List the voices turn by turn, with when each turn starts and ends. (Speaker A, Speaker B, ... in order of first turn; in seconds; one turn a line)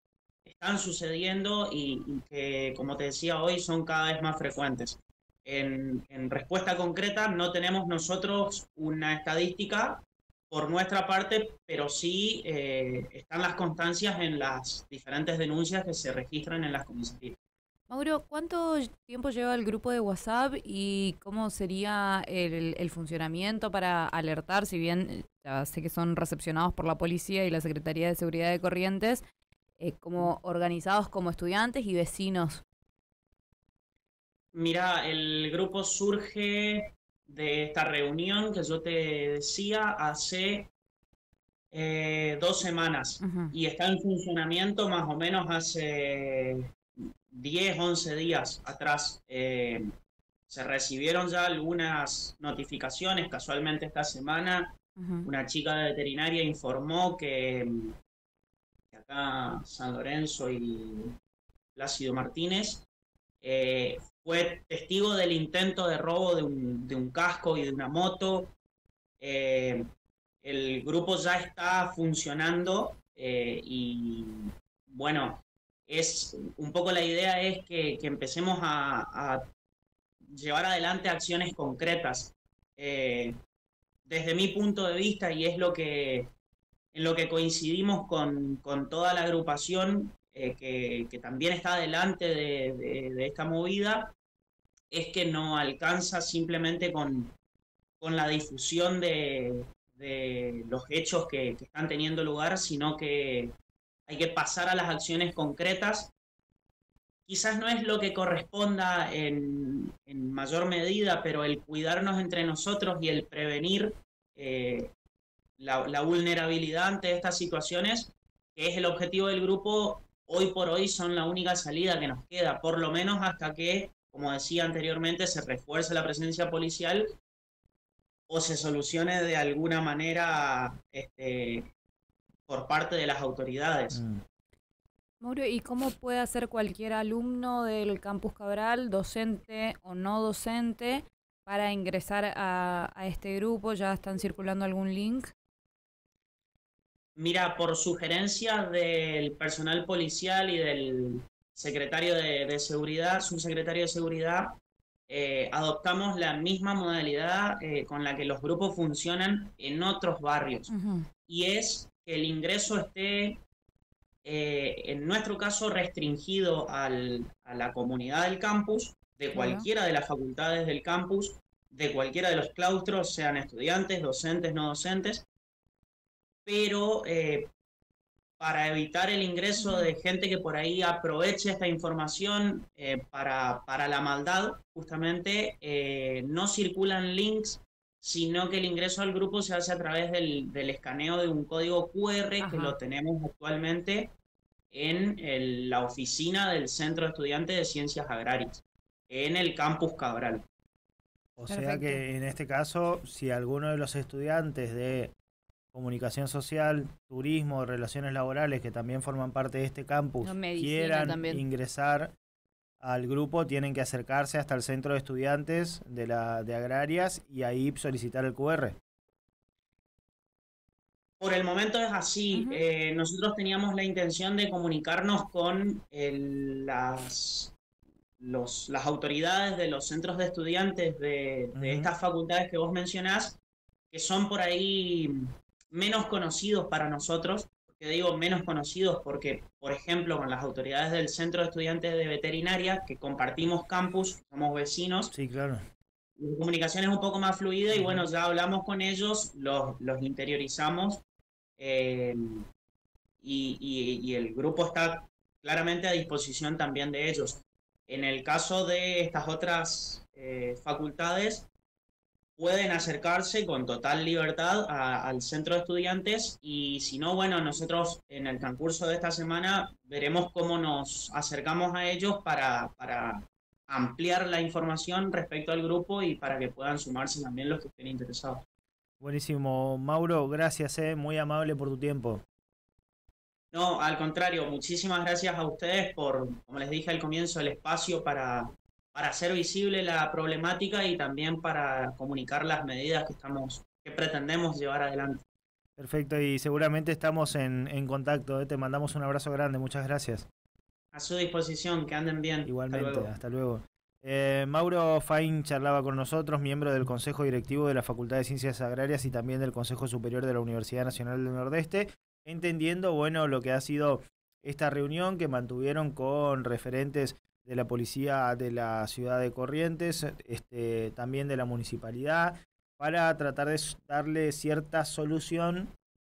Speaker A: 0.4-17.3
Speaker B: 17.9-29.2
Speaker B: 29.8-32.6
Speaker A: 34.5-40.7
Speaker A: 41.7-49.9
Speaker B: 43.2-43.5
Speaker A: 50.5-57.9
Speaker B: 55.0-55.3
Speaker A: 58.9-61.1
Speaker A: 61.8-62.9
Speaker A: 63.4-68.5
Speaker A: 69.2-69.9
Speaker A: 70.4-79.4
Speaker A: 80.2-83.3
Speaker A: 84.1-86.3
Speaker A: 86.9-94.1
Speaker A: 94.9-97.3
Speaker A: 98.0-103.5
Speaker A: 104.1-106.1
Speaker A: 107.3-114.9
Speaker A: 115.6-127.1
Speaker A: 128.3-131.7
Speaker A: 132.5-134.0
Speaker C: 133.9-134.2
Speaker B: 135.2-145.3
Speaker A: 147.2-154.6
Speaker A: 155.1-160.7
Speaker B: 160.7-161.1
Speaker A: 161.3-163.4
Speaker A: 164.2-175.2
Speaker B: 169.3-169.7
Speaker A: 176.4-177.5
Speaker A: 178.4-194.1
Speaker B: 179.6-179.9
Speaker B: 192.4-192.8
Speaker A: 194.7-200.4
Speaker C: 201.4-205.1
Speaker B: 201.5-202.0
Speaker C: 205.7-212.1
Speaker B: 210.2-211.4
Speaker C: 212.8-218.8
Speaker A: 221.2-227.5
Speaker B: 222.3-222.6
Speaker A: 228.2-233.4
Speaker C: 231.5-231.9
Speaker A: 233.9-245.1
Speaker C: 245.1-245.6
Speaker A: 246.2-251.0
Speaker C: 247.7-248.0
Speaker A: 251.6-252.4
Speaker A: 253.2-261.5
Speaker A: 262.4-278.4
Speaker C: 279.0-282.2
Speaker A: 283.5-295.2
Speaker C: 295.8-300.3
Speaker A: 300.9-303.1
Speaker C: 302.5-325.7